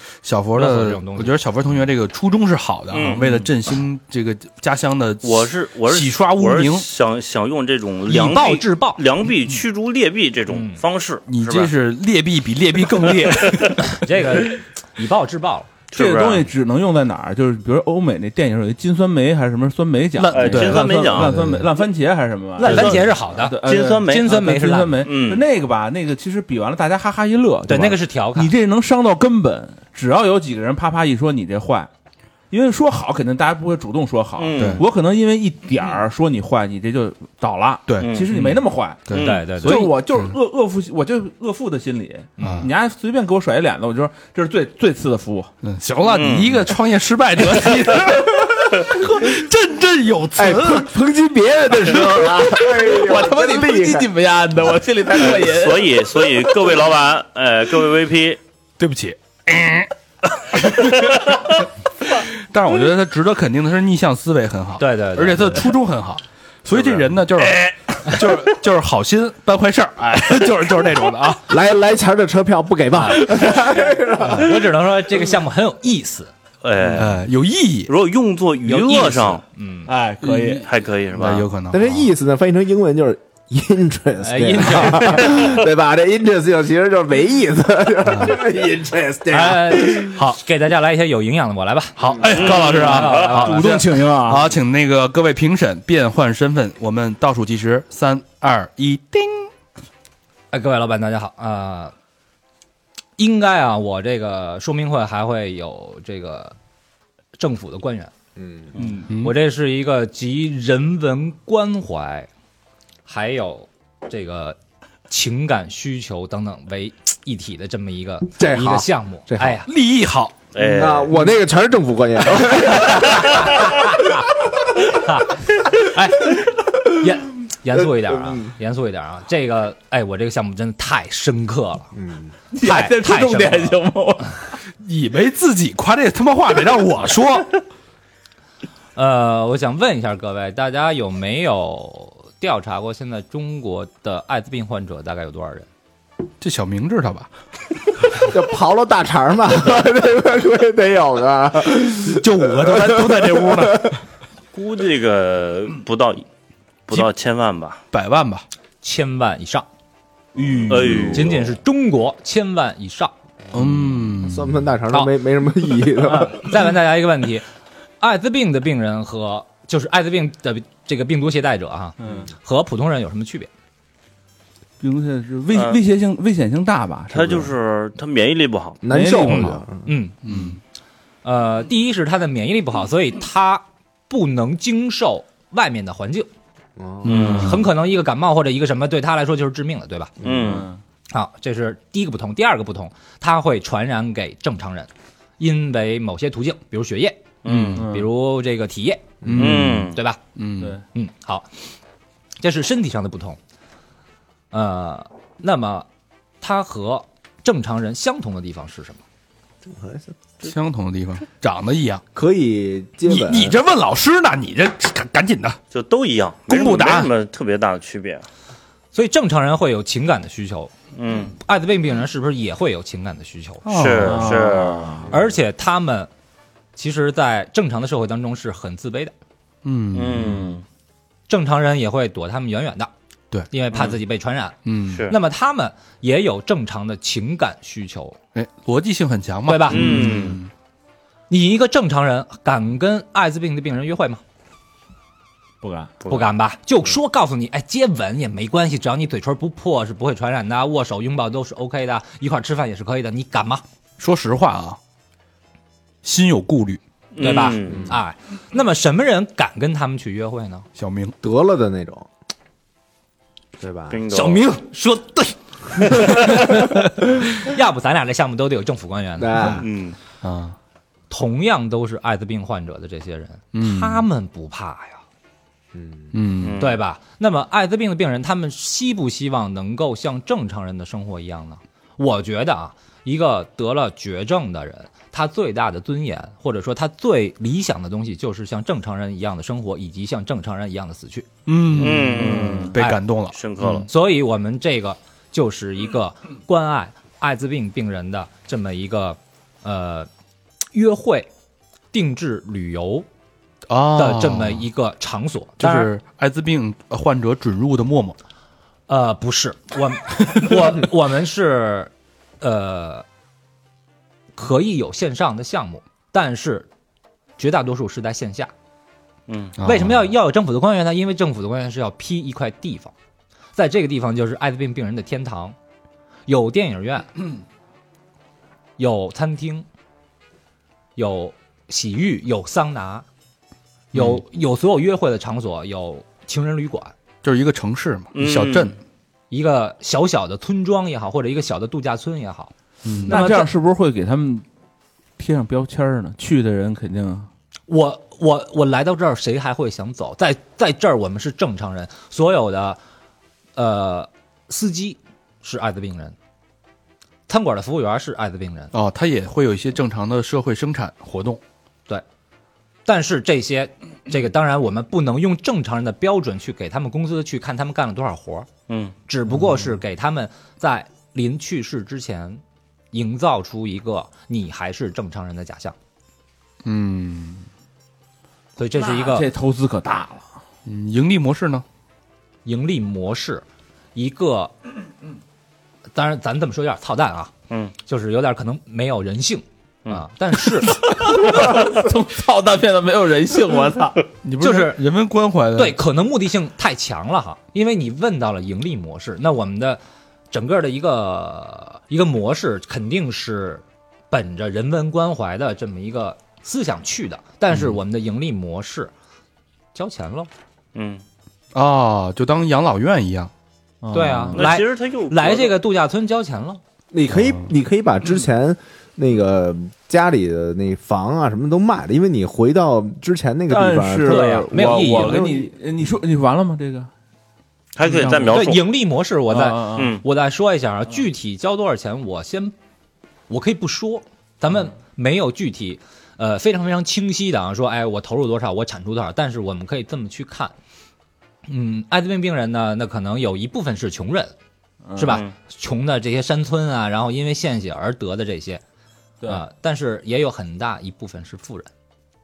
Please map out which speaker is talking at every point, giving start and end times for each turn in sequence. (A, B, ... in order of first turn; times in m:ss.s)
0:00.2-0:06.9 A
0:00.5-0:01.4 B
0:02.9-0:03.3 C
0:05.2-0:11.7 C
0:08.1-0:09.0 B
0:10.5-0:10.8 B
0:11.3-0:14.0 A
0:13.9-0:15.8 B
0:15.9-0:16.5 C
0:15.9-0:31.9 D
0:20.2-0:21.6 A
0:20.3-0:21.3 C
0:22.6-0:25.0 B
0:22.6-0:23.1 C
0:23.6-0:24.4 C
0:25.0-0:25.4 C
0:27.7-0:28.5 B
0:32.5-0:45.5 D
0:34.4-0:34.8 C
0:34.6-0:34.8 A
0:37.9-0:40.3 A
0:38.0-0:38.3 C
0:39.1-0:39.4 C
0:39.2-0:39.9 B
0:42.4-0:42.6 B
0:42.4-0:42.7 A
0:45.6-0:50.9 A
0:46.0-0:46.6 C
0:47.4-0:48.3 D
0:50.4-0:54.1 E
0:51.8-0:56.3 D
0:55.2-0:58.4 C
0:58.8-1:01.6 A
1:02.5-1:11.5 A
1:04.8-1:05.7 B
1:06.7-1:07.7 C
1:11.5-1:14.4 E
1:13.1-1:13.7 B
1:14.2-1:14.5 A
1:14.4-1:16.3 B
1:16.6-1:17.2 C
1:16.9-1:17.9 A
1:17.9-1:19.4 C
1:18.7-1:19.9 B
1:18.7-1:19.3 A
1:19.8-1:20.7 D
1:20.2-1:22.1 A
1:20.6-1:21.5 C
1:21.7-1:30.1 E
1:24.2-1:25.5 B
1:29.3-1:33.6 B
1:30.1-1:30.4 A
1:32.0-1:39.5 A
1:32.3-1:33.6 C
1:33.2-1:34.5 D
1:40.5-1:41.9 B
1:43.2-1:46.5 B
1:47.4-1:48.1 B
1:48.4-1:48.7 E
1:48.9-1:52.3 B
1:49.1-1:49.3 A
1:53.0-1:54.6 B
1:55.1-1:59.7 B
1:58.4-1:59.6 E
1:59.6-2:00.4 A
2:00.5-2:01.2 C
2:00.6-2:03.4 E
2:04.9-2:11.9 B
2:08.0-2:08.5 E
2:11.9-2:12.3 E
2:12.5-2:14.3 D
2:12.6-2:13.8 B
2:14.8-2:17.5 A
2:18.9-2:25.7 B
2:26.4-2:27.3 A
2:28.2-2:33.9 E
2:32.2-2:33.9 A
2:32.4-2:32.9 B
2:34.5-2:36.2 C
2:36.9-2:37.8 C
2:37.9-2:38.4 A
2:38.8-2:39.7 B
2:40.4-2:41.2 D
2:40.5-2:41.2 A
2:40.7-2:41.5 C
2:41.1-2:43.1 B
2:43.5-2:44.6 A
2:44.2-2:46.4 E
2:46.0-2:47.4 B
2:48.0-2:53.5 B
2:52.0-2:52.3 D
2:54.8-2:57.5 D
2:55.5-2:55.8 C
2:57.1-2:58.8 C
2:58.8-2:59.9 E
2:58.9-2:59.6 D
2:59.8-3:00.2 B
3:00.2-3:00.6 A
3:01.2-3:06.3 B
3:06.8-3:07.2 E
3:07.0-3:07.6 C
3:07.1-3:07.6 D
3:07.2-3:10.2 B
3:10.2-3:10.7 C
3:10.2-3:10.5 E
3:10.2-3:10.8 D
3:11.1-3:17.3 B
3:17.4-3:17.8 C
3:17.5-3:17.8 A
3:17.7-3:18.1 D
3:17.9-3:19.2 B
3:19.2-3:19.5 E
3:19.2-3:20.7 A
3:19.3-3:20.0 C
3:19.9-3:20.2 B
3:20.9-3:21.5 B
3:22.4-3:23.4 B
3:24.5-3:25.9 B
3:26.4-3:29.0 B
3:29.7-3:30.1 E
3:30.4-3:32.0 A
3:32.1-3:33.6 E
3:33.1-3:35.6 A
3:35.7-3:38.3 C
3:36.5-3:37.1 A
3:38.9-3:40.7 B
3:41.0-3:41.3 C
3:41.4-3:43.6 B
3:43.6-3:44.5 A
3:43.7-3:45.1 C
3:44.0-3:45.1 D
3:45.1-3:46.1 B
3:46.7-3:49.1 B
3:49.6-3:50.5 A
3:49.9-3:50.6 C
3:51.3-3:52.9 B
3:53.5-3:54.6 B
3:54.6-3:55.0 A
3:55.1-3:58.2 B
3:58.3-4:00.5 A
3:59.5-4:00.0 B
3:59.7-4:00.4 C
4:01.3-4:04.2 B
4:05.6-4:06.0 D
4:06.0-4:06.3 C
4:06.1-4:13.6 B
4:14.0-4:14.8 A
4:16.0-4:16.8 A
4:17.1-4:18.0 C
4:17.2-4:20.6 B
4:17.7-4:17.9 E
4:20.8-4:21.2 A
4:21.2-4:22.1 E
4:23.6-4:24.0 E
4:23.9-4:24.5 C
4:24.1-4:29.6 B
4:29.2-4:29.6 E
4:29.6-4:30.0 C
4:30.2-4:30.6 A
4:31.1-4:35.0 B
4:33.5-4:34.0 A
4:35.7-4:36.1 E
4:36.1-4:36.6 A
4:36.4-4:36.8 C
4:36.6-4:51.3 B
4:51.4-4:53.9 A
4:51.8-4:52.6 D
4:51.8-4:52.8 C
4:52.8-4:53.0 B
4:53.3-4:53.9 C
4:53.9-5:00.1 B
5:00.7-5:01.3 B
5:01.9-5:03.1 B
5:03.7-5:04.7 A
5:04.0-5:05.9 B
5:05.6-5:08.2 A
5:08.9-5:13.0 B
5:14.3-5:16.7 B
5:17.4-5:18.5 B
5:19.3-5:19.6 C
5:19.6-5:20.1 A
5:19.6-5:22.9 B
5:23.5-5:25.6 B
5:26.3-5:27.1 B
5:28.8-5:29.7 B
5:31.0-5:33.0 B
5:33.9-5:34.2 A
5:33.9-5:36.9 B
5:37.2-5:38.8 A
5:38.1-5:38.8 C
5:39.3-5:42.5 B
5:42.8-5:43.2 A
5:43.1-5:43.5 B
5:43.1-5:44.4 D
5:45.2-5:47.3 D
5:47.7-5:52.8 B
5:53.5-5:56.2 B
5:57.3-5:58.7 B
5:58.7-6:01.4 A
6:02.8-6:08.5 B
6:08.7-6:08.9 C
6:09.1-6:15.8 B
6:16.6-6:17.4 A
6:18.6-6:19.3 B
6:18.7-6:20.3 D
6:20.6-6:21.6 A
6:22.4-6:23.4 B
6:23.9-6:24.5 B
6:25.9-6:30.8 B
6:30.7-6:34.0 D
6:34.2-6:35.8 A
6:34.4-6:34.8 B
6:35.5-6:48.9 B
6:49.7-6:50.3 B
6:50.7-6:51.0 C
6:51.5-6:53.3 A
6:53.8-6:54.4 D
6:53.9-6:56.6 B
6:54.3-6:55.6 C
6:56.9-7:05.5 E
7:03.5-7:06.9 D
7:04.0-7:05.3 B
7:07.7-7:08.7 C
7:07.8-7:08.5 D
7:08.3-7:12.5 B
7:09.3-7:10.0 D
7:09.7-7:10.0 C
7:13.3-7:20.5 B
7:21.4-7:24.3 B
7:24.8-7:25.2 D
7:25.0-7:28.6 B
7:25.0-7:25.3 C
7:29.2-7:31.7 B